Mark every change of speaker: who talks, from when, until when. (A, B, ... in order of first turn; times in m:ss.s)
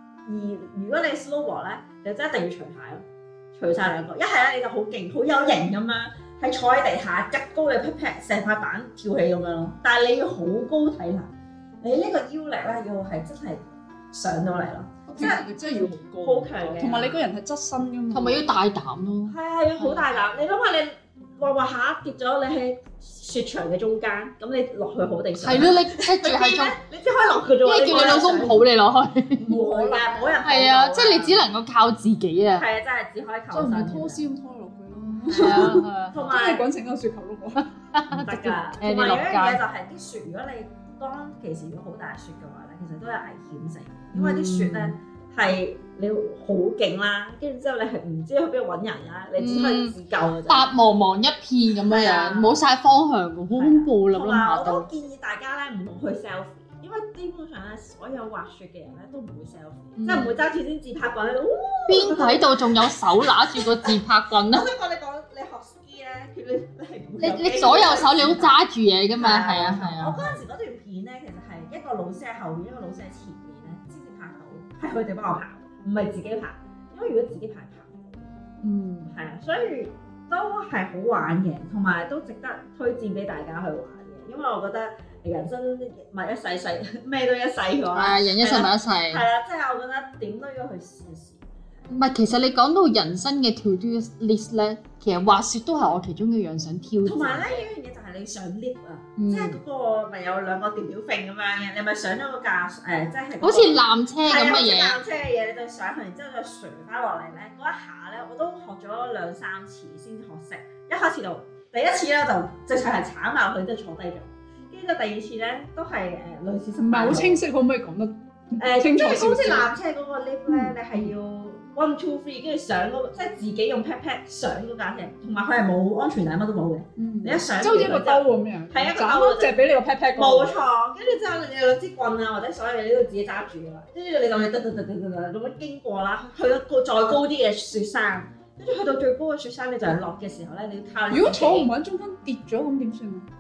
0:00.3-0:17.2 A
0:15.1-0:18.5 B
0:18.1-0:20.2 C
0:19.3-0:28.6 A
0:25.4-0:26.8 C
0:27.6-0:29.5 C
0:29.4-0:31.4 A
0:29.4-0:30.4 B
0:30.4-0:32.7 C
0:32.6-0:34.2 A
0:33.5-0:37.7 B
0:35.3-0:36.7 A
0:35.3-0:36.3 C
0:37.9-0:39.6 C
0:38.1-0:50.7 A
0:44.1-0:45.0 C
0:49.4-0:50.0 C
0:50.5-0:54.9 C
0:51.9-0:52.6 A
0:53.5-1:08.6 A
1:00.0-1:00.4 C
1:01.9-1:04.7 C
1:07.2-1:10.4 C
1:09.2-1:18.2 A
1:18.6-1:19.1 C
1:19.1-1:31.4 A
1:27.9-1:29.2 C
1:31.9-1:37.6 C
1:37.0-1:57.4 A
1:39.2-1:39.6 C
1:43.4-1:45.0 C
1:56.8-1:59.7 B
1:58.6-2:09.6 A
2:00.5-2:01.1 B
2:07.0-2:10.6 B
2:10.2-2:21.7 A
2:21.1-2:23.3 B